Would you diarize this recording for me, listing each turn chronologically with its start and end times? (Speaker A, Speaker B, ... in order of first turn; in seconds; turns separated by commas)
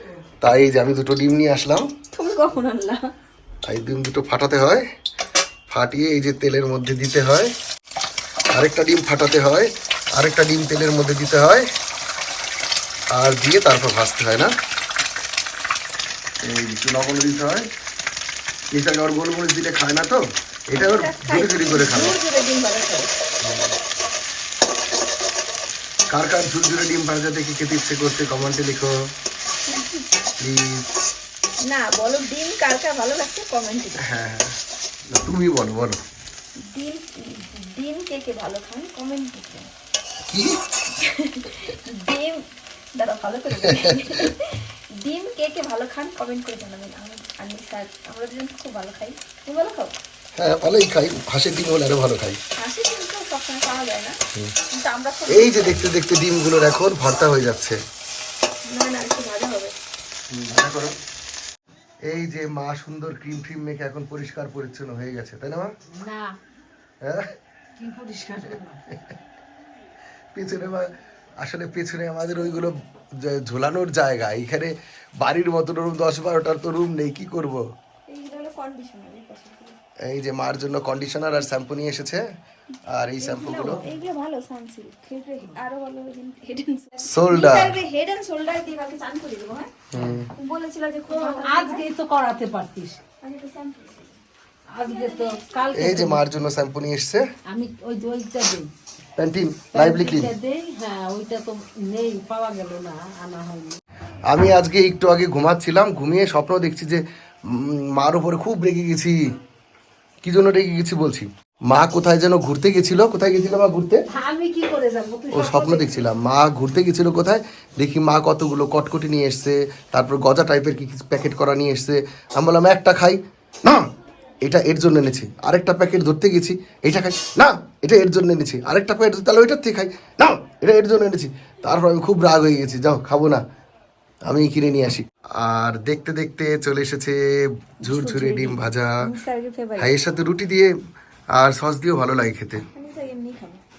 Speaker A: 0.4-1.9, Speaker B: 2.1-3.1, Speaker A: 3.6-4.8, Speaker A: 5.7-7.5, Speaker A: 8.5-11.6, Speaker A: 13.2-14.5, Speaker A: 16.4-17.6, Speaker A: 18.7-22.2, Speaker B: 20.8-23.1, Speaker A: 23.4-23.7, Speaker A: 26.1-28.9, Speaker B: 29.7-30.0, Speaker A: 30.4-30.8, Speaker B: 31.6-34.2, Speaker A: 34.0-34.5, Speaker A: 35.1-36.0, Speaker B: 36.6-39.7, Speaker A: 40.3-40.6, Speaker B: 41.0-42.4, Speaker B: 42.9-49.9, Speaker A: 43.5-44.1, Speaker A: 50.4-52.4, Speaker B: 52.6-54.2, Speaker B: 54.7-56.0, Speaker A: 55.3-57.8, Speaker B: 58.7-59.7, Speaker A: 60.3-60.9, Speaker A: 62.1-65.7, Speaker C: 65.9-66.3, Speaker A: 67.0-67.3, Speaker C: 67.8-68.8, Speaker A: 70.3-70.8, Speaker A: 71.4-77.6, Speaker B: 78.1-79.8, Speaker A: 80.0-82.2, Speaker A: 82.9-83.8, Speaker B: 83.2-89.7, Speaker A: 87.0-87.8, Speaker A: 89.9-90.3, Speaker B: 90.3-91.8, Speaker C: 91.1-93.0, Speaker B: 93.2-94.1, Speaker C: 94.7-96.2, Speaker B: 94.8-95.6, Speaker A: 95.8-97.2, Speaker C: 97.5-98.7, Speaker A: 99.2-100.3, Speaker C: 99.7-103.8, Speaker A: 104.3-109.3, Speaker A: 110.2-114.0, Speaker C: 114.1-116.0, Speaker A: 115.3-123.8, Speaker A: 124.4-133.4, Speaker A: 134.2-137.2, Speaker A: 137.8-138.9, Speaker B: 137.8-139.9, Speaker A: 139.8-140.7, Speaker A: 141.3-142.6, Speaker B: 142.7-143.6